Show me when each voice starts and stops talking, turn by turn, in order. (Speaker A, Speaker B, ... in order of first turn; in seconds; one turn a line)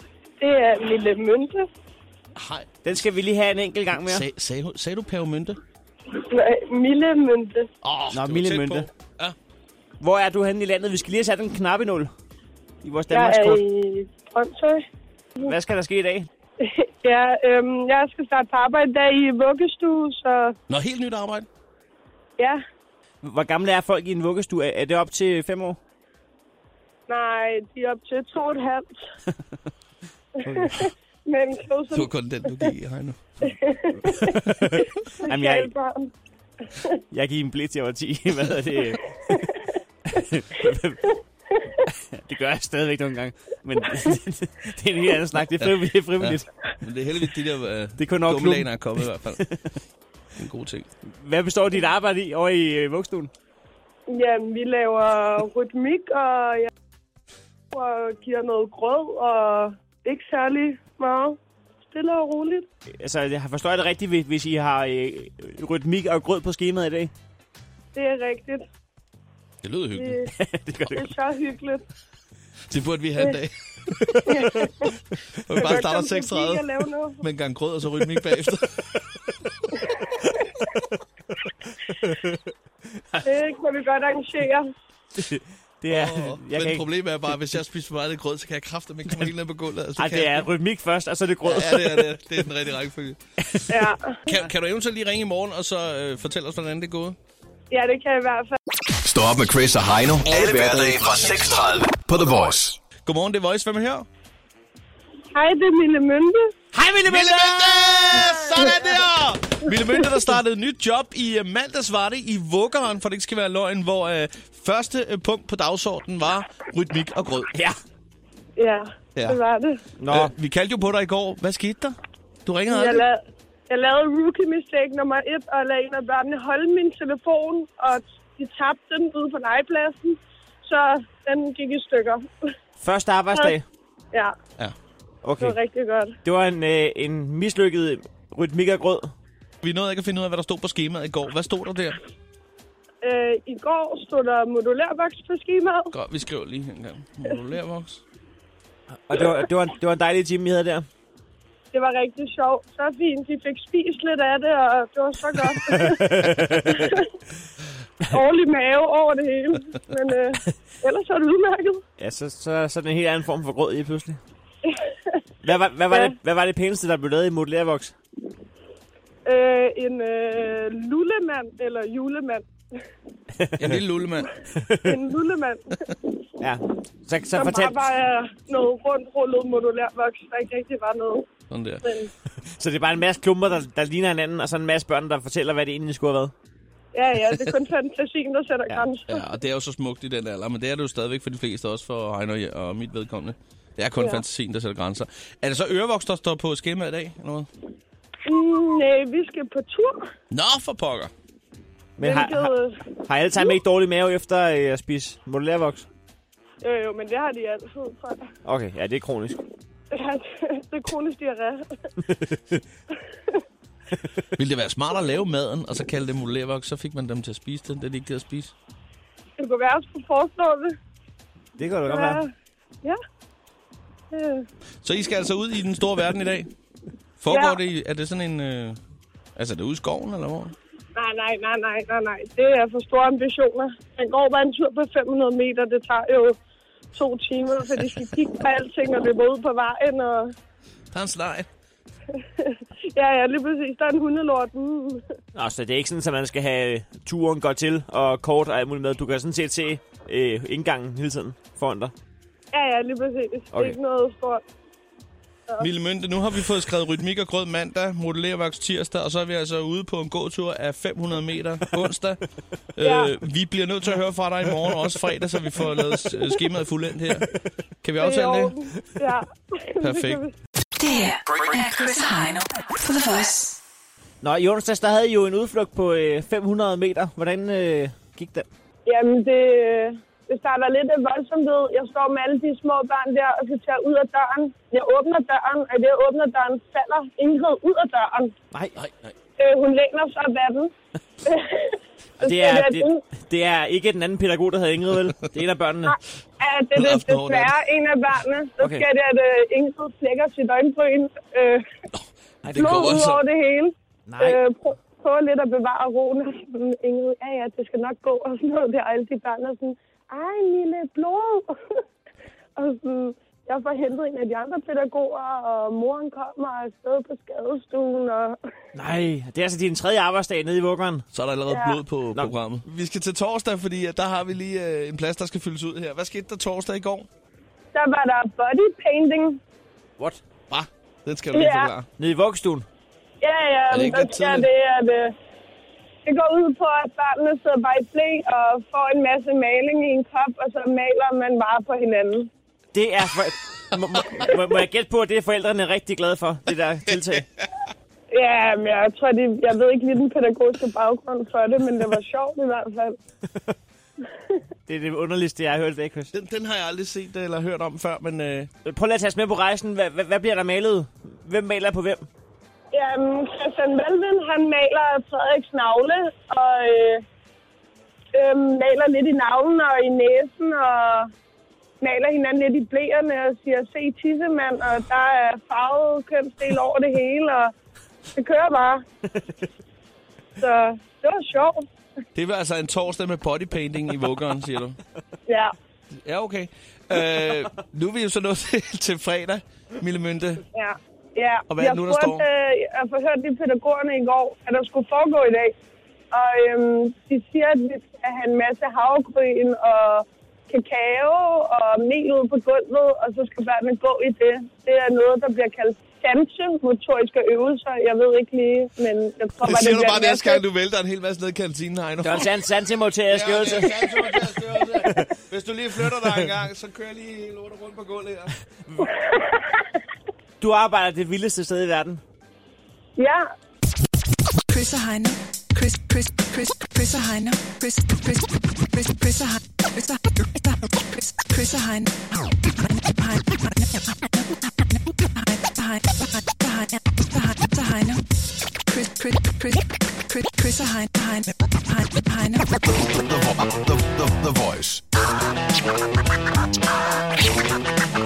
Speaker A: 0.4-1.6
Speaker B: 2.4-2.8
Speaker C: 2.8-4.2
Speaker B: 3.9-5.6
Speaker A: 6.2-7.7
Speaker B: 7.8-9.4
Speaker C: 8.1-8.9
Speaker C: 10.0-12.1
Speaker C: 12.8-13.6
Speaker A: 13.1-14.8
Speaker C: 15.4-16.3
Speaker A: 16.6-20.6
Speaker B: 20.7-21.5
Speaker C: 23.2-25.8
Speaker A: 27.1-28.9
Speaker C: 30.4-30.9
Speaker A: 30.4-32.7
Speaker B: 31.9-33.5
Speaker A: 33.5-34.4
Speaker C: 34.2-35.7
Speaker B: 34.4-34.6
Speaker A: 34.9-36.1
Speaker C: 37.1-39.4
Speaker A: 38.9-39.8
Speaker C: 40.1-41.0
Speaker C: 41.9-46.5
Speaker B: 46.2-49.4
Speaker C: 48.0-49.8
Speaker B: 50.4-50.9
Speaker C: 51.0-53.3
Speaker A: 54.1-56.7
Speaker A: 57.7-61.4
Speaker A: 61.9-62.7
Speaker C: 63.0-67.1
Speaker A: 68.0-68.6
Speaker B: 69.6-70.2
Speaker A: 70.0-70.3
Speaker C: 70.3-71.1
Speaker A: 70.9-71.9
Speaker B: 72.7-74.0
Speaker C: 74.0-74.7
Speaker A: 74.3-74.9
Speaker B: 75.4-76.6
Speaker A: 75.5-77.2
Speaker B: 77.2-78.9
Speaker C: 80.6-81.0
Speaker C: 81.7-83.2
Speaker A: 83.2-84.7
Speaker C: 85.2-86.8
Speaker B: 85.9-90.5
Speaker C: 90.0-92.2
Speaker B: 91.4-93.2
Speaker C: 93.4-93.8
Speaker A: 93.7-94.2
Speaker B: 94.3-97.2
Speaker A: 97.7-98.6
Speaker D: 99.0-102.8
Speaker B: 100.2-101.7
Speaker B: 103.0-104.1
Speaker A: 105.3-106.5
Speaker C: 106.7-108.3
Speaker B: 107.0-117.5
Speaker A: 118.6-119.8
Speaker C: 120.0-120.3
Speaker B: 120.1-123.0
Speaker A: 122.7-132.3
Speaker C: 132.8-133.7
Speaker C: 135.2-135.6
Speaker A: 135.4-136.2
Speaker C: 136.2-139.1
Speaker B: 139.6-142.0
Speaker A: 143.0-145.9
Speaker B: 145.9-148.0
Speaker C: 149.1-150.8
Speaker A: 151.7-157.1
Speaker C: 155.7-157.0
Speaker A: 158.1-161.8
Speaker C: 162.0-164.2
Speaker A: 164.7-165.2
Speaker C: 165.4-167.9
Speaker A: 169.3-172.5
Speaker C: 173.4-173.8
Speaker B: 173.6-174.3
Speaker C: 174.6-174.9
Speaker A: 174.8-175.8
Speaker C: 176.4-177.8
Speaker A: 177.3-181.3
Speaker B: 181.5-181.8
Speaker A: 181.8-182.1
Speaker C: 182.4-186.3
Speaker A: 186.9-189.2
Speaker B: 188.7-197.5
Speaker A: 194.0-194.2
Speaker A: 198.3-200.0
Speaker B: 200.3-201.1
Speaker C: 202.0-202.5
Speaker A: 202.0-203.6
Speaker C: 203.1-205.9
Speaker A: 206.6-208.3
Speaker C: 208.4-209.4
Speaker A: 209.9-211.9
Speaker A: 213.0-213.4
Speaker B: 214.3-218.5
Speaker A: 219.4-220.7
Speaker C: 221.6-222.2
Speaker A: 221.9-222.3
Speaker A: 224.1-224.5
Speaker B: 224.8-226.5
Speaker B: 227.2-228.8
Speaker A: 227.3-227.6
Speaker B: 229.4-230.5
Speaker A: 231.0-236.4
Speaker A: 236.9-240.3
Speaker B: 240.9-241.5
Speaker A: 242.2-245.1
Speaker C: 245.3-251.9
Speaker A: 252.5-254.4
Speaker C: 253.5-253.8
Speaker B: 255.6-262.2
Speaker B: 262.8-267.3
Speaker A: 262.8-263.1
Speaker B: 267.8-268.6
Speaker A: 268.0-270.4
Speaker B: 269.8-270.2
Speaker E: 270.8-273.6
Speaker C: 274.2-278.5
Speaker A: 278.9-288.3
Speaker B: 288.8-289.1
Speaker A: 289.4-293.0
Speaker C: 292.2-296.0
Speaker A: 295.9-301.6
Speaker B: 296.8-297.5
Speaker C: 298.6-298.9
Speaker B: 301.9-303.2
Speaker A: 302.5-311.6
Speaker C: 304.1-304.4
Speaker A: 312.6-318.4
Speaker C: 318.7-321.1
Speaker B: 321.1-327.1
Speaker A: 321.5-321.8
Speaker A: 327.7-329.4
Speaker B: 330.5-331.9
Speaker A: 331.3-331.7
Speaker C: 332.0-332.6
Speaker A: 333.2-335.1
Speaker B: 333.7-334.5
Speaker A: 336.1-342.3
Speaker C: 342.7-347.3
Speaker A: 348.1-353.0
Speaker C: 353.3-353.5
Speaker C: 354.7-356.1
Speaker B: 356.1-358.5
Speaker C: 358.6-362.1
Speaker A: 362.7-367.0
Speaker A: 368.1-371.1
Speaker A: 371.8-377.5
Speaker A: 378.2-378.8
Speaker A: 380.4-381.6
Speaker B: 382.1-384.8
Speaker A: 385.3-385.6
Speaker B: 386.1-390.4
Speaker A: 390.5-395.5
Speaker B: 391.5-392.2
Speaker A: 396.1-410.4
Speaker B: 409.4-412.3
Speaker C: 412.0-414.2
Speaker B: 413.1-418.4
Speaker A: 418.8-419.6
Speaker C: 420.4-422.0
Speaker A: 423.0-423.2
Speaker E: 424.5-442.8
Speaker D: 442.7-444.8